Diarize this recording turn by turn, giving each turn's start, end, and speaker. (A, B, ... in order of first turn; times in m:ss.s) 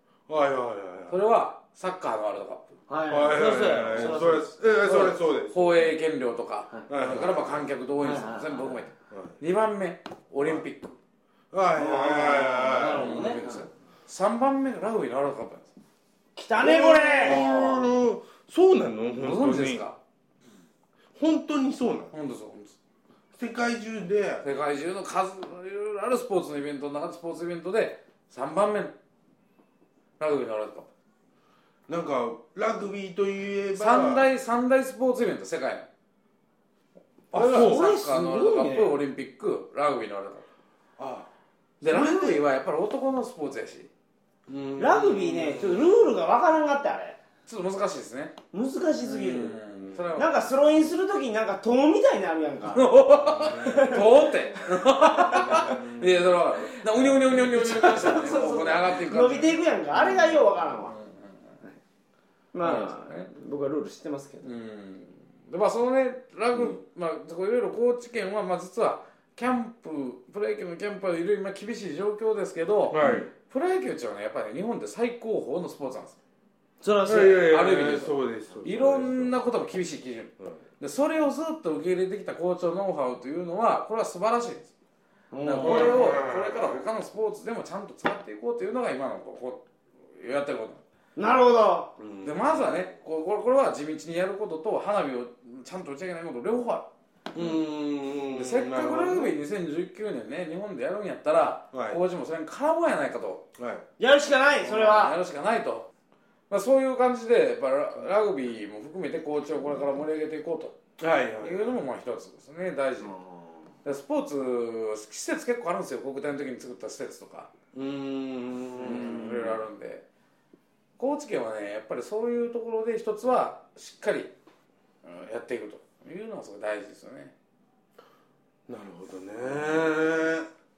0:00.3-0:01.2 A
0:01.1-0:02.6 B
0:02.9-0:04.5 C
0:03.1-0:05.9 A
0:03.6-0:04.2 B
0:04.8-0:11.0 B
0:06.9-0:07.7 A
0:08.0-0:08.9 C
0:11.5-0:13.3 A
0:11.7-0:13.7 C
0:12.8-0:15.7 B
0:16.4-0:17.4 C
0:16.6-0:19.8 A
0:17.2-0:17.9 B
0:19.2-0:20.0 B
0:21.2-0:22.1 A
0:22.1-0:22.7 B
0:23.3-0:24.4 A
0:24.4-0:28.9 B
0:30.2-0:30.9 B
0:31.9-0:34.3 A
0:33.7-0:35.9 B
0:37.3-0:37.8 A
0:37.3-0:40.4 B
0:37.3-0:38.9 C
0:38.6-0:38.9 A
0:41.0-0:41.3 A
0:41.8-0:43.9 B
0:41.8-0:42.4 A
0:44.5-0:45.8 A
0:44.8-0:47.2 C
0:47.4-0:48.4 B
0:48.5-0:49.6 C
0:49.0-0:50.3 B
0:50.2-0:54.1 C
0:52.7-1:01.5 B
0:53.5-0:53.9 A
0:54.9-0:55.8 C
0:55.2-0:56.3 A
0:57.0-1:00.9 C
1:02.5-1:04.5 C
1:02.6-1:03.3 B
1:04.4-1:16.2 B
1:12.9-1:13.3 A
1:16.8-1:17.5 C
1:17.0-1:19.3 A
1:17.1-1:24.7 B
1:25.3-1:26.2 C
1:25.4-1:30.8 B
1:25.6-1:26.8 A
1:31.2-1:31.9 C
1:32.0-1:32.9 A
1:32.2-1:36.9 B
1:37.3-1:39.4 A
1:38.3-1:43.4 B
1:41.7-1:42.0 A
1:43.6-1:43.8 A
1:44.0-1:45.1 C
1:44.6-1:45.8 B
1:46.5-1:50.8 B
1:51.0-1:51.7 A
1:51.4-1:53.1 B
1:53.0-1:53.5 C
1:53.8-1:57.5 B
1:57.7-1:59.6 A
1:58.8-2:00.0 B
2:01.0-2:04.3 B
2:05.0-2:07.3 B
2:08.7-2:10.5 A